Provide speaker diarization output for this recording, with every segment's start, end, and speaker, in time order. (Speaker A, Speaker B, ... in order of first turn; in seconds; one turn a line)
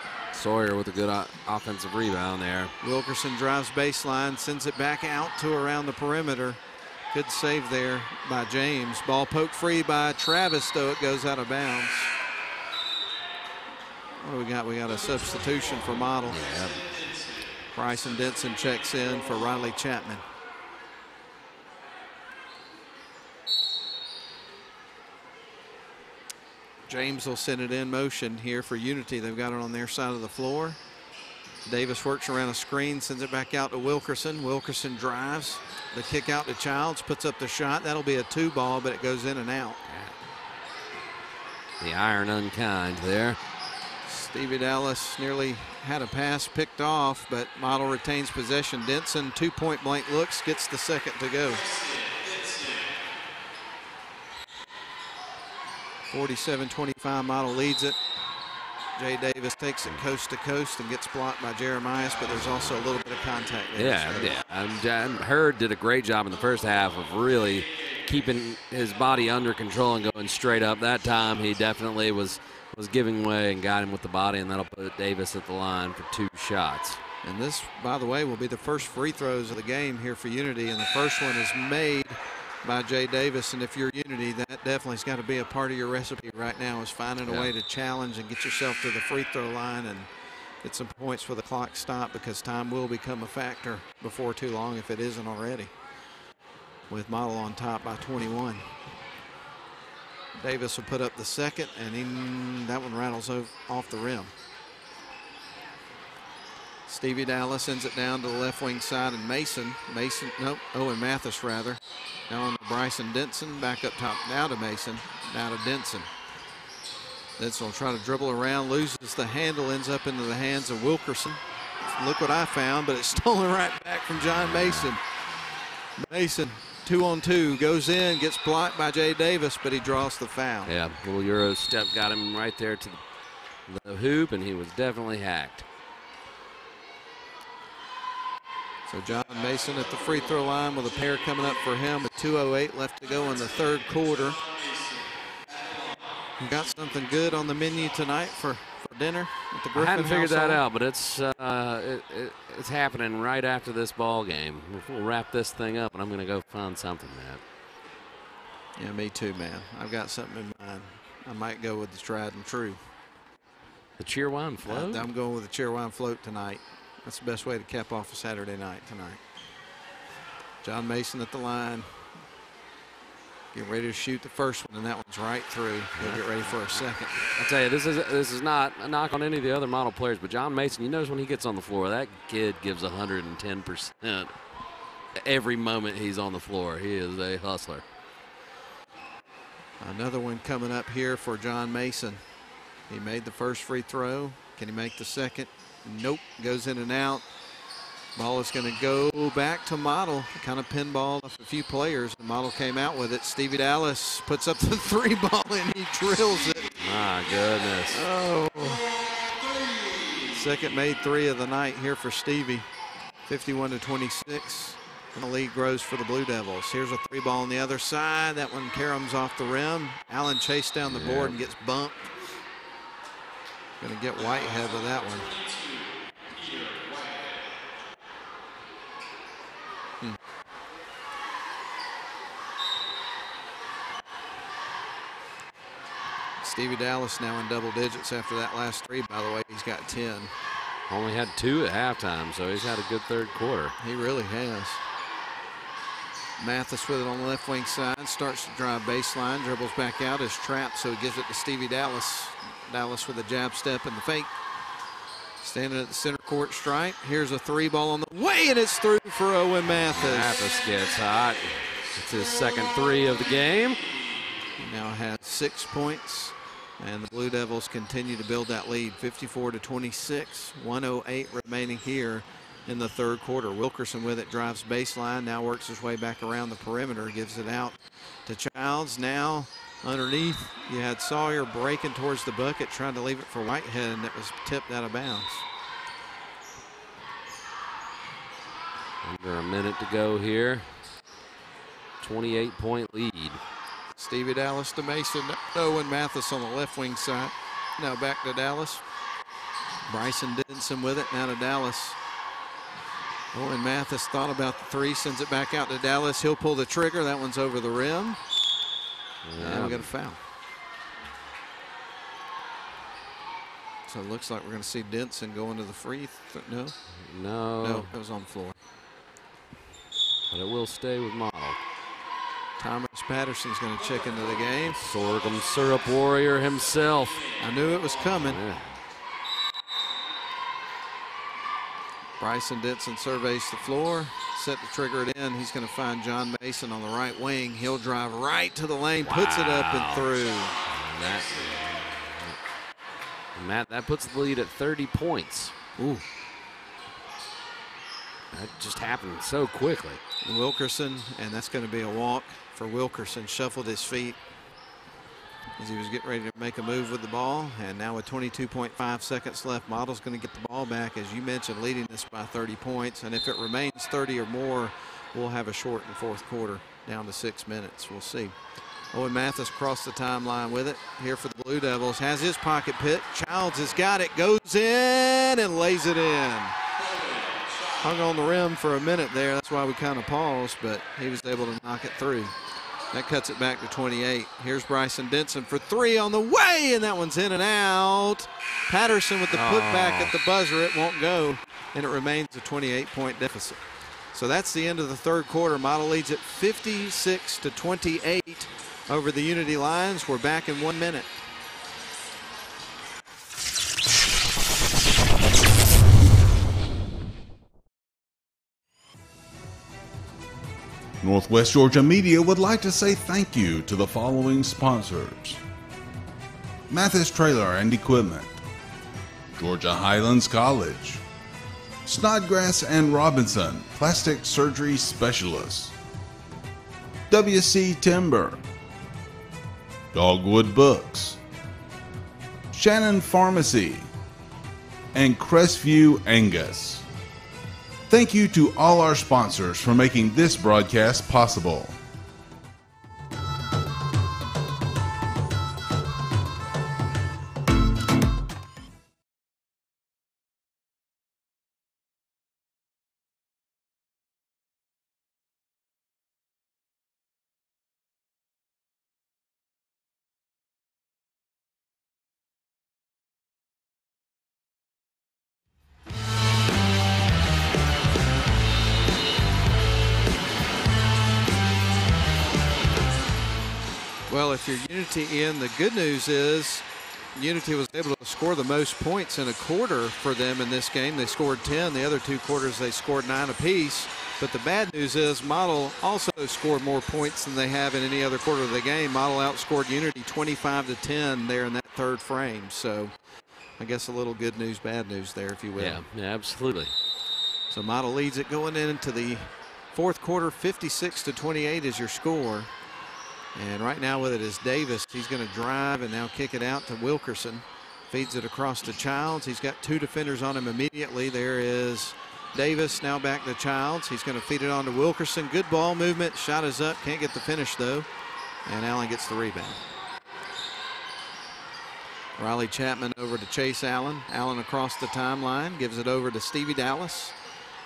Speaker A: 0.3-2.7
Speaker B: 2.8-6.6
Speaker B: 7.1-12.1
Speaker B: 14.2-16.4
Speaker A: 16.3-17.2
Speaker B: 17.7-20.2
Speaker B: 26.9-30.8
Speaker B: 31.7-39.8
Speaker A: 41.8-43.4
Speaker B: 44.1-51.6
Speaker B: 56.1-58.0
Speaker B: 59.0-64.3
Speaker A: 63.8-77.0
Speaker B: 77.2-90.1
Speaker A: 87.2-87.5
Speaker B: 90.6-95.7
Speaker B: 96.9-98.7
Speaker B: 100.4-104.3
Speaker B: 106.9-116.1
Speaker B: 117.4-125.0
Speaker A: 124.4-124.9
Speaker B: 126.0-130.7
Speaker A: 130.7-133.0
Speaker A: 133.7-135.7
Speaker B: 138.9-144.4
Speaker B: 146.4-150.6
Speaker A: 149.7-157.4
Speaker B: 158.8-162.8
Speaker A: 164.0-165.1
Speaker B: 164.7-169.2
Speaker B: 170.6-171.9
Speaker B: 173.5-177.2
Speaker A: 176.0-184.3
Speaker A: 185.2-187.8
Speaker B: 189.8-192.2
Speaker B: 192.9-197.3
Speaker B: 198.2-206.7
Speaker A: 206.8-208.0
Speaker B: 207.9-208.8
Speaker B: 210.3-212.7
Speaker B: 213.3-222.1
Speaker A: 220.9-221.4
Speaker B: 223.8-225.3
Speaker B: 236.4-240.3
Speaker A: 240.9-243.8
Speaker B: 243.8-244.8
Speaker B: 246.4-254.3
Speaker B: 255.4-260.3
Speaker A: 259.8-263.8
Speaker B: 264.6-285.4
Speaker A: 289.0-290.7
Speaker A: 292.0-293.4
Speaker B: 294.0-298.8
Speaker B: 299.9-302.0
Speaker B: 303.3-308.2
Speaker A: 309.2-309.9
Speaker B: 309.4-310.2
Speaker B: 313.9-316.8
Speaker A: 317.1-317.9
Speaker B: 317.6-318.6
Speaker A: 320.3-321.6
Speaker B: 322.6-324.8
Speaker A: 324.8-327.2
Speaker B: 327.4-328.4
Speaker A: 328.2-328.8
Speaker B: 332.2-340.6
Speaker A: 339.0-340.1
Speaker A: 340.7-342.4
Speaker A: 343.4-345.6
Speaker B: 345.8-346.0
Speaker A: 348.3-350.0
Speaker B: 350.2-354.2
Speaker B: 355.6-368.4
Speaker B: 368.9-376.6
Speaker B: 377.8-382.3
Speaker B: 382.9-393.6
Speaker A: 389.3-390.1
Speaker B: 394.1-401.1
Speaker C: 411.0-415.4
Speaker C: 416.7-418.4
Speaker C: 419.4-421.0
Speaker C: 421.9-425.7
Speaker C: 427.1-428.4
Speaker C: 429.9-431.2
Speaker C: 432.5-433.9
Speaker C: 434.9-436.9
Speaker C: 437.9-441.8
Speaker B: 474.1-492.9
Speaker B: 493.6-495.8
Speaker A: 495.6-496.7
Speaker B: 497.5-502.5
Speaker B: 503.4-517.9
Speaker B: 518.5-519.6
Speaker B: 522.2-527.1